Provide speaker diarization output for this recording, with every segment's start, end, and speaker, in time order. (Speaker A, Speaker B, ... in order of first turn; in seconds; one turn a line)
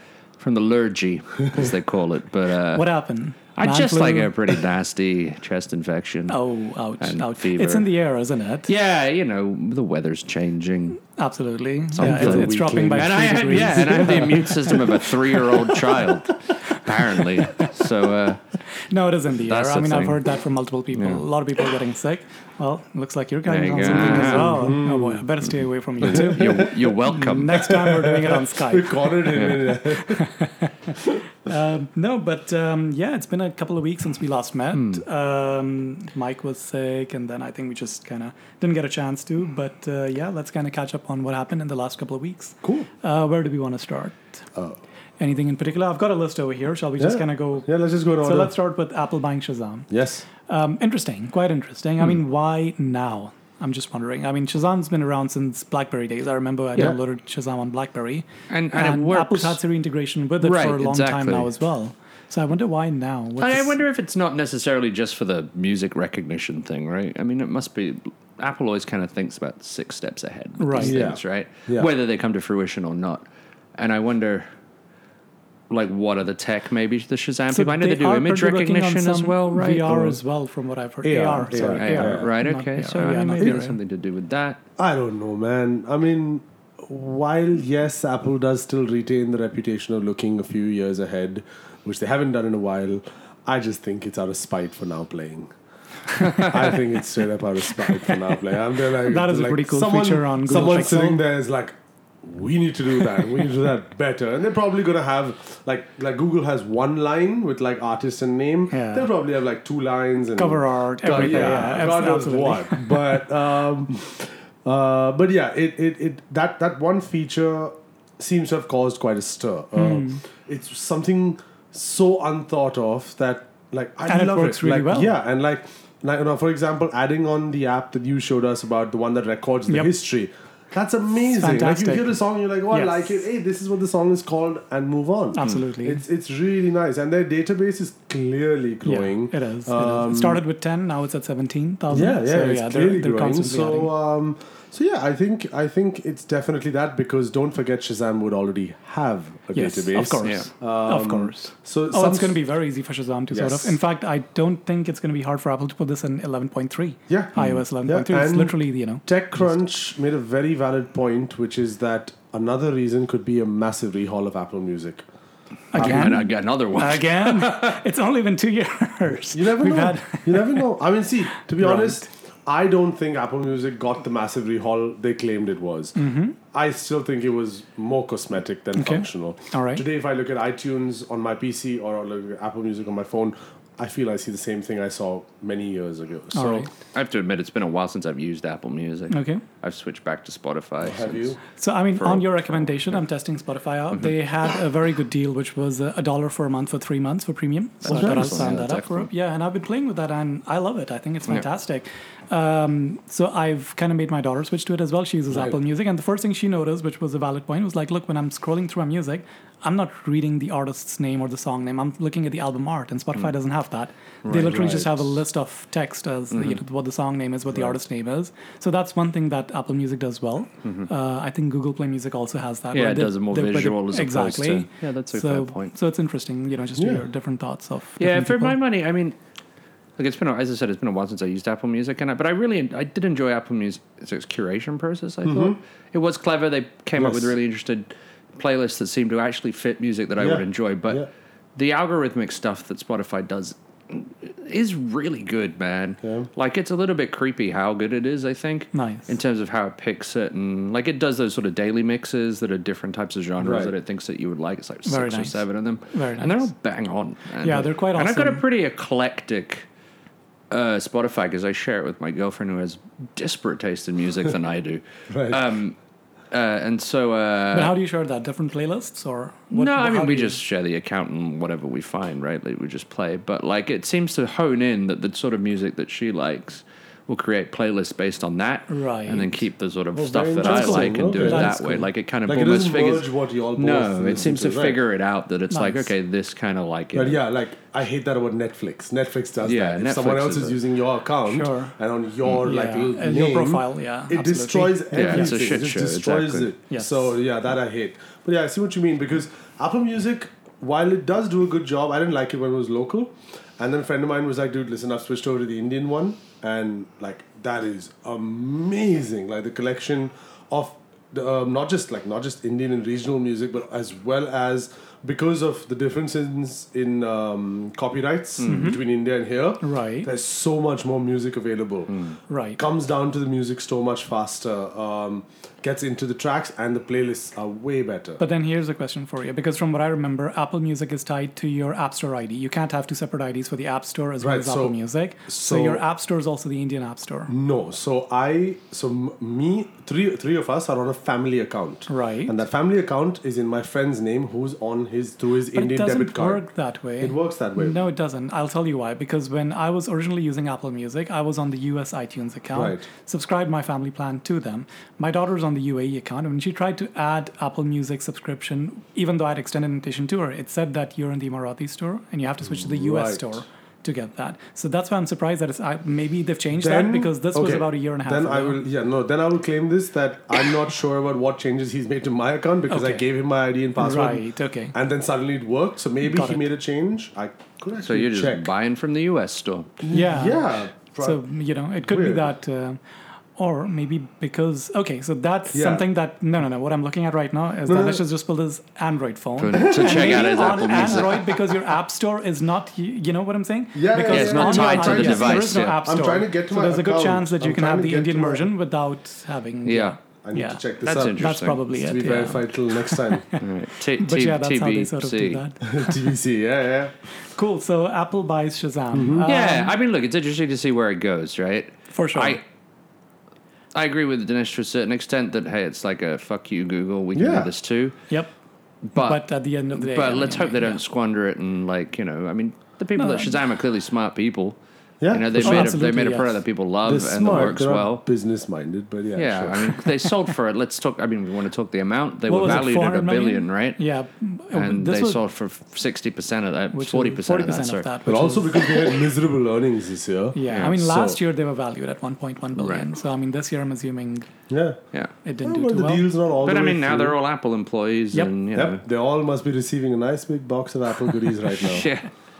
Speaker A: 0.4-2.9
Speaker B: 2.7-4.3
Speaker A: 3.5-6.4
Speaker B: 6.3-8.7
Speaker A: 7.0-7.9
Speaker A: 8.7-11.0
Speaker B: 11.1-15.1
Speaker C: 12.0-14.9
Speaker A: 12.0-18.4
Speaker B: 17.1-17.8
Speaker B: 18.9-44.4
Speaker A: 19.5-20.2
Speaker A: 20.9-21.2
Speaker A: 23.5-24.6
Speaker C: 23.9-25.2
Speaker A: 26.0-27.7
Speaker C: 26.0-26.8
Speaker C: 27.7-30.3
Speaker A: 29.4-29.6
Speaker A: 34.7-35.0
Speaker C: 42.6-42.9
Speaker B: 45.2-47.7
Speaker C: 47.0-48.5
Speaker B: 48.2-49.9
Speaker C: 49.9-50.2
Speaker B: 50.4-63.8
Speaker A: 58.5-59.6
Speaker A: 60.4-61.5
Speaker A: 63.4-73.2
Speaker B: 70.6-71.0
Speaker C: 70.8-71.9
Speaker A: 73.8-74.5
Speaker A: 75.7-80.0
Speaker B: 77.5-83.8
Speaker C: 79.9-80.2
Speaker C: 81.0-82.3
Speaker A: 81.5-84.6
Speaker C: 84.8-95.5
Speaker C: 96.3-140.4
Speaker B: 99.0-101.2
Speaker B: 108.7-109.1
Speaker B: 110.2-113.2
Speaker B: 119.8-120.2
Speaker B: 124.1-125.1
Speaker B: 131.2-132.2
Speaker B: 132.7-133.0
Speaker B: 135.3-136.0
Speaker B: 138.8-143.9
Speaker C: 141.9-152.4
Speaker B: 149.5-159.5
Speaker C: 153.3-153.8
Speaker C: 157.1-165.0
Speaker B: 165.7-170.7
Speaker C: 165.8-166.2
Speaker A: 165.8-167.8
Speaker C: 169.3-176.0
Speaker B: 171.3-172.0
Speaker B: 175.9-176.4
Speaker C: 176.5-186.7
Speaker B: 178.8-179.8
Speaker B: 186.3-186.7
Speaker A: 186.9-191.3
Speaker B: 189.1-189.4
Speaker C: 190.8-191.4
Speaker B: 191.6-228.6
Speaker A: 191.9-193.0
Speaker A: 197.8-199.1
Speaker C: 197.9-198.5
Speaker A: 214.2-214.8
Speaker C: 214.4-215.1
Speaker A: 216.3-216.6
Speaker C: 217.5-217.8
Speaker A: 222.7-225.8
Speaker C: 226.8-227.0
Speaker A: 228.0-229.2
Speaker A: 230.0-259.6
Speaker C: 235.2-235.6
Speaker C: 236.9-237.4
Speaker C: 240.2-241.1
Speaker C: 246.0-246.3
Speaker B: 248.7-249.1
Speaker C: 253.4-253.7
Speaker B: 254.9-256.5
Speaker B: 257.4-258.4
Speaker A: 260.5-265.8
Speaker C: 265.1-265.4
Speaker A: 266.3-267.7
Speaker B: 267.5-270.4
Speaker A: 269.5-287.2
Speaker B: 278.7-279.4
Speaker C: 279.9-281.6
Speaker B: 280.4-281.9
Speaker C: 282.2-284.8
Speaker B: 285.5-285.9
Speaker C: 286.9-328.2
Speaker A: 289.4-290.6
Speaker B: 291.3-291.8
Speaker B: 292.3-295.4
Speaker A: 294.9-296.5
Speaker B: 296.7-297.1
Speaker A: 318.4-318.8
Speaker B: 318.4-318.8
Speaker B: 319.6-320.1
Speaker B: 322.3-322.6
Speaker B: 328.2-337.3
Speaker C: 334.2-334.8
Speaker C: 335.3-335.8
Speaker C: 337.3-346.4
Speaker B: 341.9-342.4
Speaker B: 345.5-368.6
Speaker C: 347.0-347.8
Speaker C: 352.5-352.9
Speaker C: 362.5-363.4
Speaker C: 366.6-378.5
Speaker B: 372.7-373.0
Speaker B: 373.8-374.8
Speaker B: 376.0-376.4
Speaker A: 377.8-379.8
Speaker C: 379.8-381.2
Speaker B: 379.9-382.8
Speaker C: 381.8-382.2
Speaker B: 383.4-406.1
Speaker C: 385.5-385.8
Speaker C: 387.6-388.0
Speaker A: 389.4-391.4
Speaker C: 389.5-391.3
Speaker C: 393.8-398.5
Speaker A: 394.0-395.8
Speaker A: 399.6-399.9
Speaker C: 400.2-403.3
Speaker A: 400.8-401.6
Speaker A: 403.4-405.4
Speaker C: 405.6-406.9
Speaker B: 407.2-409.8
Speaker C: 408.9-409.3
Speaker A: 409.2-412.4
Speaker B: 411.9-412.4
Speaker A: 413.7-418.0
Speaker C: 417.1-417.5
Speaker A: 418.9-424.6
Speaker B: 418.9-420.8
Speaker B: 422.9-423.3
Speaker C: 425.0-425.8
Speaker A: 425.1-428.0
Speaker B: 425.4-426.4
Speaker C: 426.8-429.8
Speaker A: 429.1-433.8
Speaker B: 432.3-435.2
Speaker A: 434.5-437.9
Speaker B: 436.7-438.9
Speaker C: 438.1-441.2
Speaker B: 440.3-444.3
Speaker A: 442.6-442.9
Speaker C: 444.5-444.8
Speaker B: 445.2-446.1
Speaker C: 445.4-447.1
Speaker A: 446.4-448.8
Speaker C: 448.5-451.9
Speaker A: 451.6-452.1